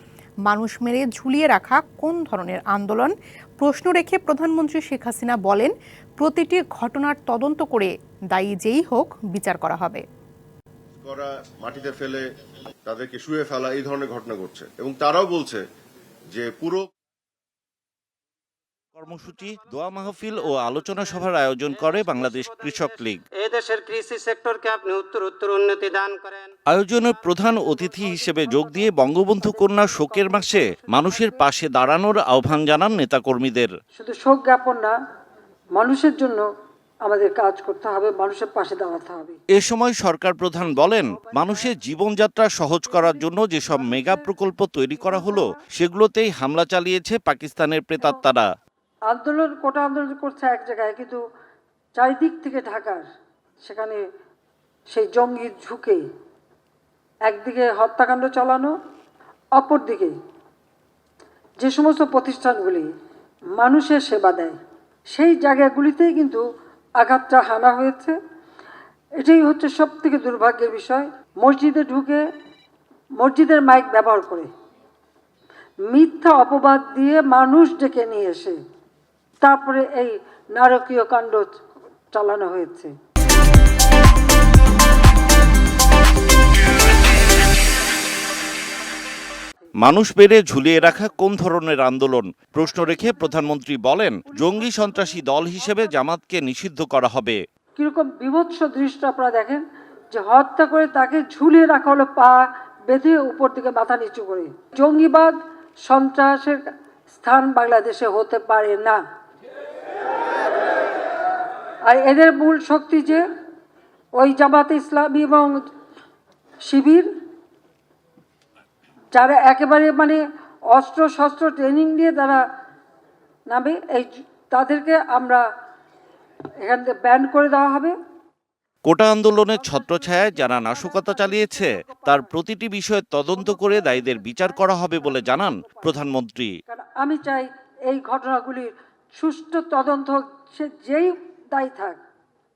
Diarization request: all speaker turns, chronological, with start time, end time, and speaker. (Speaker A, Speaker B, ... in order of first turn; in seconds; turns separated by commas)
Speaker A: 0.5-10.0, Speaker B: 11.0-12.2, Speaker B: 12.8-15.6, Speaker B: 16.3-16.9, Speaker C: 18.9-23.2, Speaker D: 21.7-26.5, Speaker C: 26.7-33.7, Speaker E: 27.0-31.4, Speaker E: 33.9-34.9, Speaker E: 35.7-36.5, Speaker E: 37.0-39.4, Speaker C: 39.5-48.5, Speaker E: 40.8-41.8, Speaker E: 42.9-44.3, Speaker E: 44.9-45.6, Speaker E: 49.1-51.2, Speaker E: 51.9-53.1, Speaker E: 53.6-54.0, Speaker E: 54.9-56.0, Speaker E: 57.3-58.7, Speaker E: 59.5-60.1, Speaker E: 61.6-62.9, Speaker E: 63.6-66.4, Speaker E: 67.0-68.2, Speaker E: 69.2-72.2, Speaker E: 73.2-74.5, Speaker E: 75.9-78.6, Speaker E: 79.4-81.6, Speaker E: 82.1-82.9, Speaker C: 89.8-97.4, Speaker E: 92.6-93.5, Speaker E: 94.2-96.0, Speaker E: 97.8-106.6, Speaker E: 107.1-109.0, Speaker E: 111.8-113.2, Speaker E: 114.2-115.5, Speaker E: 116.6-117.1, Speaker E: 119.1-120.2, Speaker E: 120.7-122.4, Speaker E: 123.5-125.4, Speaker E: 126.6-127.9, Speaker C: 128.8-136.5, Speaker E: 129.5-132.4, Speaker E: 133.3-136.0, Speaker E: 136.7-142.0